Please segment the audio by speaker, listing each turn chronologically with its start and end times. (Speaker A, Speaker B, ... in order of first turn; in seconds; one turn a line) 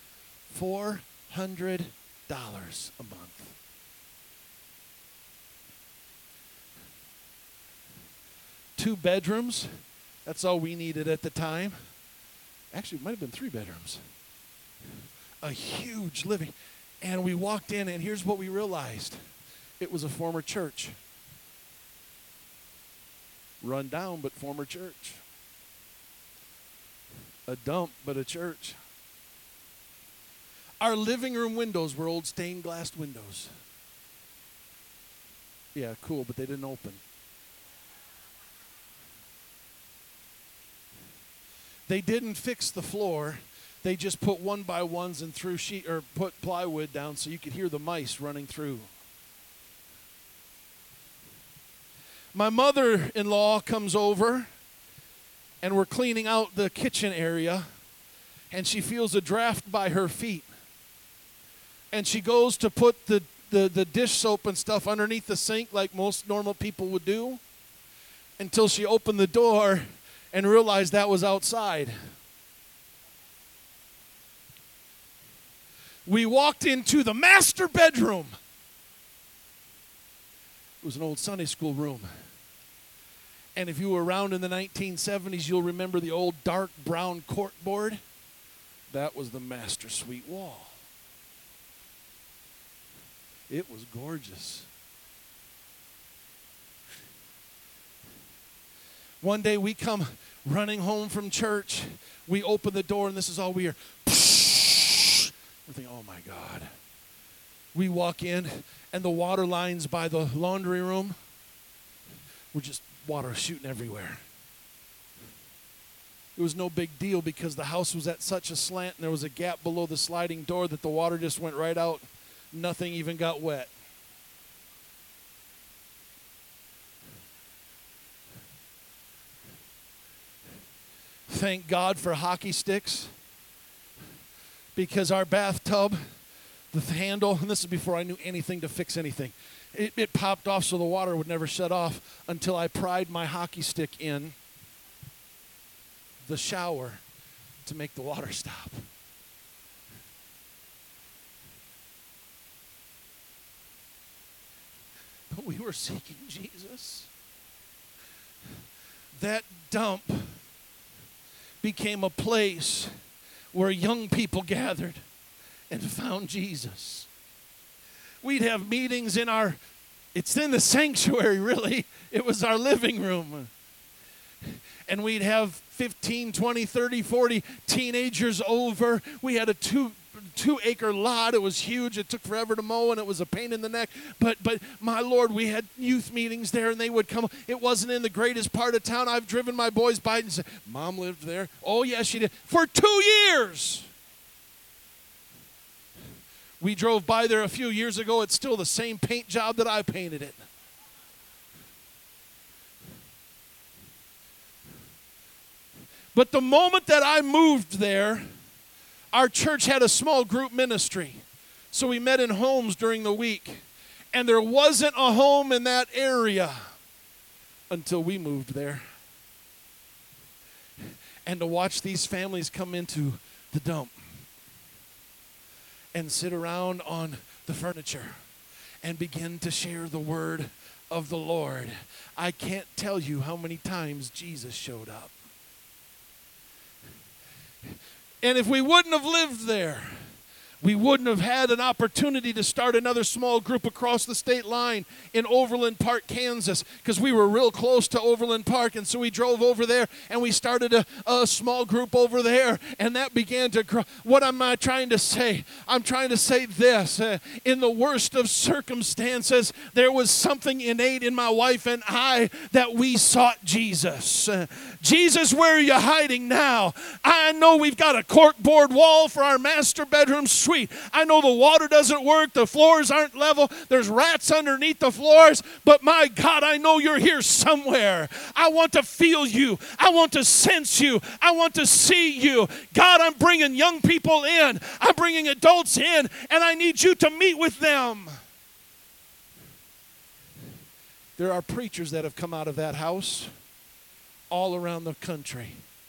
Speaker A: 0.5-3.5
Speaker A: 8.8-9.7
Speaker A: 10.2-11.8
Speaker A: 12.7-14.0
Speaker A: 15.4-19.2
Speaker A: 19.8-20.9
Speaker A: 23.6-25.2
Speaker A: 27.5-28.8
Speaker A: 30.8-33.5
Speaker A: 35.7-37.0
Speaker A: 41.9-48.9
Speaker A: 52.3-54.5
Speaker A: 55.6-57.7
Speaker A: 58.5-60.5
Speaker A: 61.9-67.4
Speaker A: 68.4-71.9
Speaker A: 76.0-78.3
Speaker A: 80.8-82.1
Speaker A: 83.5-88.0
Speaker A: 88.9-90.8
Speaker A: 93.5-94.7
Speaker A: 99.2-106.7
Speaker A: 107.7-111.2
Speaker A: 112.5-114.2
Speaker A: 116.4-123.7
Speaker A: 131.3-133.1
Speaker A: 134.7-136.0
Speaker A: 136.7-144.4
Speaker A: 146.2-147.0
Speaker A: 147.6-148.9
Speaker A: 155.3-157.1
Speaker A: 159.1-160.4
Speaker A: 161.6-162.9
Speaker A: 163.5-165.1
Speaker A: 165.7-167.1
Speaker A: 168.2-169.6
Speaker A: 170.1-173.5
Speaker A: 174.9-193.9
Speaker A: 196.6-200.4
Speaker A: 206.1-208.3
Speaker A: 209.1-216.6
Speaker A: 217.7-218.8
Speaker A: 221.2-224.0
Speaker A: 225.9-228.2
Speaker A: 228.8-235.1
Speaker A: 238.2-239.9
Speaker A: 240.6-288.1
Speaker A: 291.2-293.3
Speaker A: 294.3-295.6